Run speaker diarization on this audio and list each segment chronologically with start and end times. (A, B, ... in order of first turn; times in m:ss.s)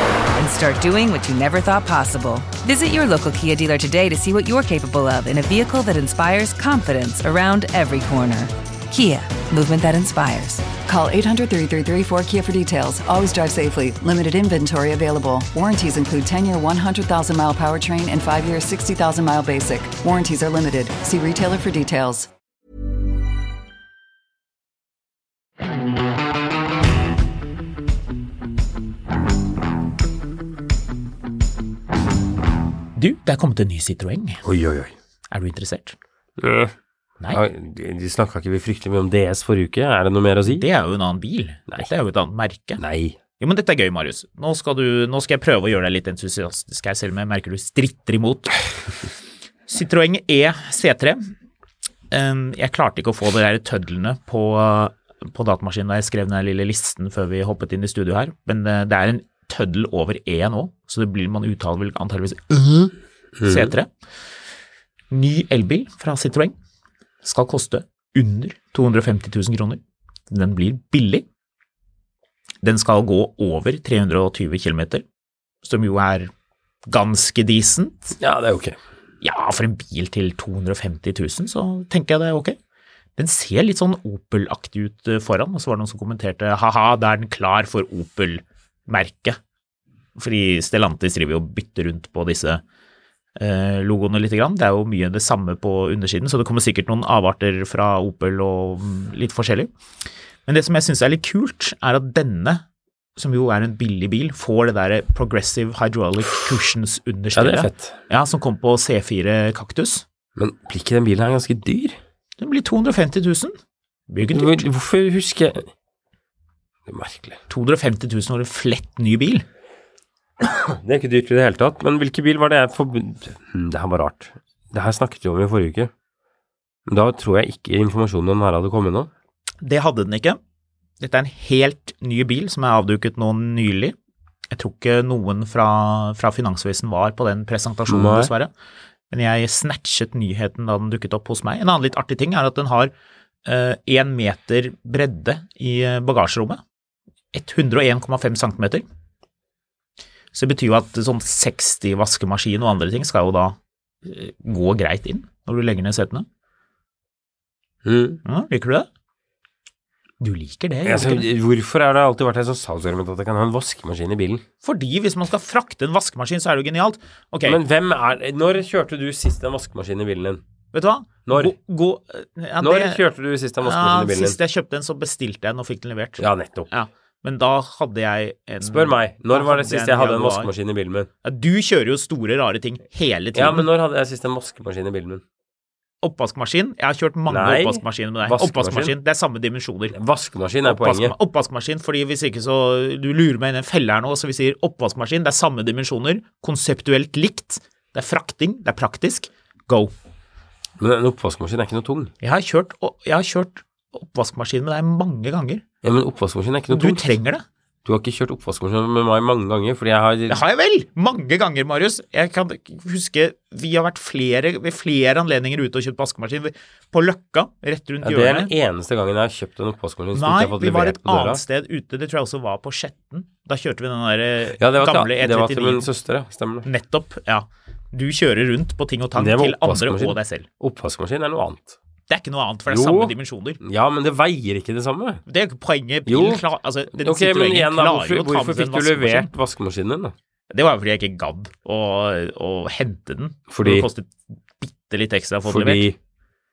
0:00.3-0:10.8 A
0:10.8-0:22.3 B
0:33.0-0:34.4 C
0:34.4-0:34.9 D
0:35.3-0:36.0 C
0:36.4-0:36.7 D
0:37.3-0:40.6 D
0:40.4-0:42.8 C
0:42.8-0:43.2 D
0:43.4-0:48.6 C
0:49.7-0:51.3 C
0:52.1-1:02.9 C
1:03.4-1:03.7 D
1:03.4-1:03.9 C
1:05.1-1:06.5 C
1:07.2-1:11.2 C
1:12.6-1:15.0 C
1:15.6-1:16.3 C
1:16.9-1:18.2 C
1:18.2-1:18.8 D
1:19.2-1:22.6 C
1:23.2-1:29.4 C
1:30.2-1:32.6 C
1:33.4-1:39.7 C
1:40.4-1:42.6 C
1:43.2-1:50.0 C
1:47.3-1:48.0 D
1:50.4-1:52.0 D
1:52.4-1:53.5 C
1:54.1-1:54.6 C
1:54.3-1:55.7 D
1:56.9-1:57.4 D
1:57.5-1:59.4 C
2:00.4-2:05.9 D
2:06.9-2:09.1 D
2:09.6-2:10.4 C
2:11.0-2:13.9 C
2:14.5-2:18.5 C
2:17.9-2:18.3 D
2:19.1-2:22.9 C
2:23.4-2:26.6 C
2:27.3-2:28.8 C
2:30.3-2:36.2 C
2:37.8-2:38.2 D
2:38.2-2:38.9 C
2:40.2-2:41.3 C
2:40.8-2:44.4 D
2:44.6-2:47.6 C
2:47.4-2:50.4 D
2:50.7-2:53.0 C
2:51.2-2:51.5 D
2:52.6-2:54.4 D
2:53.6-3:00.5 C
2:56.2-2:56.7 D
2:58.6-3:01.1 D
3:01.2-3:03.7 C
3:03.3-3:05.2 D
3:06.0-3:09.9 C
3:07.3-3:08.9 D
3:09.9-3:11.1 D
3:10.6-3:19.9 C
3:20.8-3:22.1 D
3:22.2-3:25.6 C
3:25.8-3:27.1 D
3:26.7-3:27.4 C
3:27.8-3:30.4 D
3:30.3-3:38.5 C
3:38.0-3:41.4 D
3:40.1-3:45.9 C
3:44.6-3:46.7 D
3:46.6-3:50.5 C
3:49.2-3:51.8 D
3:52.1-3:53.6 C
3:52.7-3:55.2 D
3:55.2-3:59.3 C
3:56.0-4:00.1 D
4:00.5-4:05.9 C
4:03.5-4:03.9 D
4:05.5-4:06.0 D